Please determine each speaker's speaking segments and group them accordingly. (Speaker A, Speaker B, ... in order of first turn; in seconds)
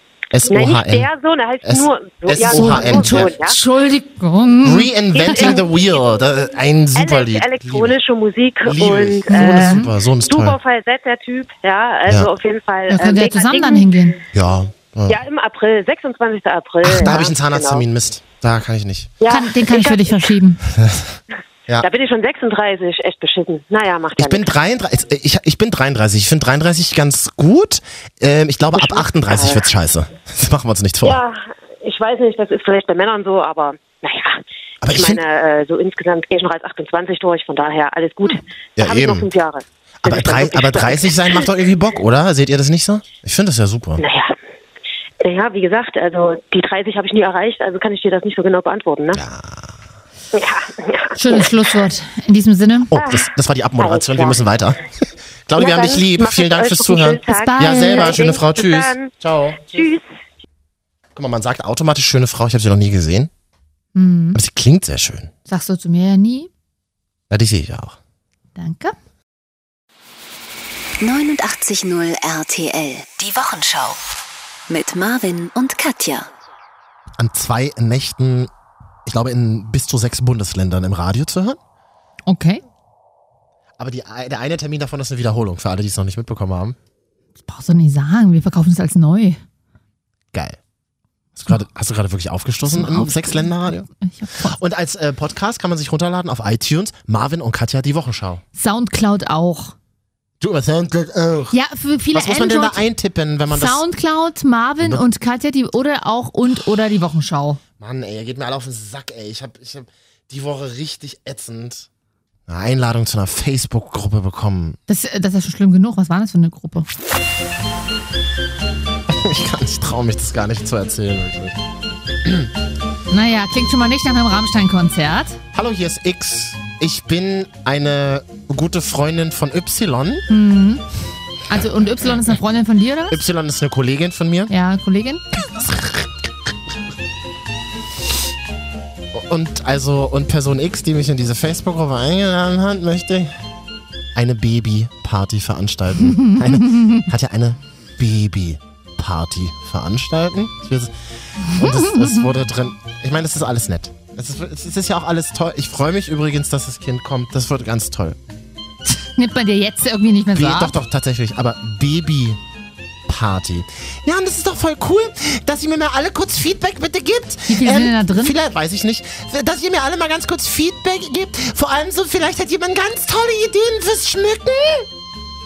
Speaker A: 0.3-1.1, 1.6-3.3, 4.6-7.9, 8.7-10.6, 14.3-15.2, 16.8-19.1, 20.7-21.1, 24.2-31.2, 34.8-35.2, 38.8-39.3, 40.0-44.0, 49.1-49.8, 52.9-54.8, 55.5-59.7, 61.1-63.3, 64.3-65.3, 67.3-68.0, 77.2-78.5, 79.0-81.6, 83.8-86.8, 90.3-90.6, 91.3-93.9, 94.4-98.4, 100.4-101.5, 102.1-103.8, 107.8-111.9, 112.5-114.8, 119.1-121.6, 122.2-122.5, 125.5-130.2, 133.1-134.5, 135.5-136.3, 139.1-143.3, 144.1-150.9, 151.5-158.2, 160.3-162.4, 163.1-174.9
Speaker B: 0.5-3.6, 5.1-5.7, 7.0-14.0, 15.1-17.8, 19.2-20.2, 21.8-24.5, 28.8-29.6, 31.0-41.4, 44.0-44.3, 45.2-49.2, 50.3-51.5, 52.9-54.4, 55.6-59.1, 59.7-60.0
Speaker C: 2.5-5.6, 9.3-9.9, 12.9-14.2, 19.3-20.6, 51.1-52.9, 57.3-58.1, 63.9-64.4, 65.5-66.5, 68.5-68.9, 82.3-82.6, 87.4-89.4, 92.7-94.6, 98.5-99.7, 101.5-102.8, 103.5-107.6, 114.9-116.9, 123.1-125.4, 130.3-130.8, 131.5-133.2, 134.5-135.2, 146.0-147.1, 151.4-152.3, 158.9-160.7, 167.5-168.3
Speaker D: 71.0-74.0, 74.7-76.3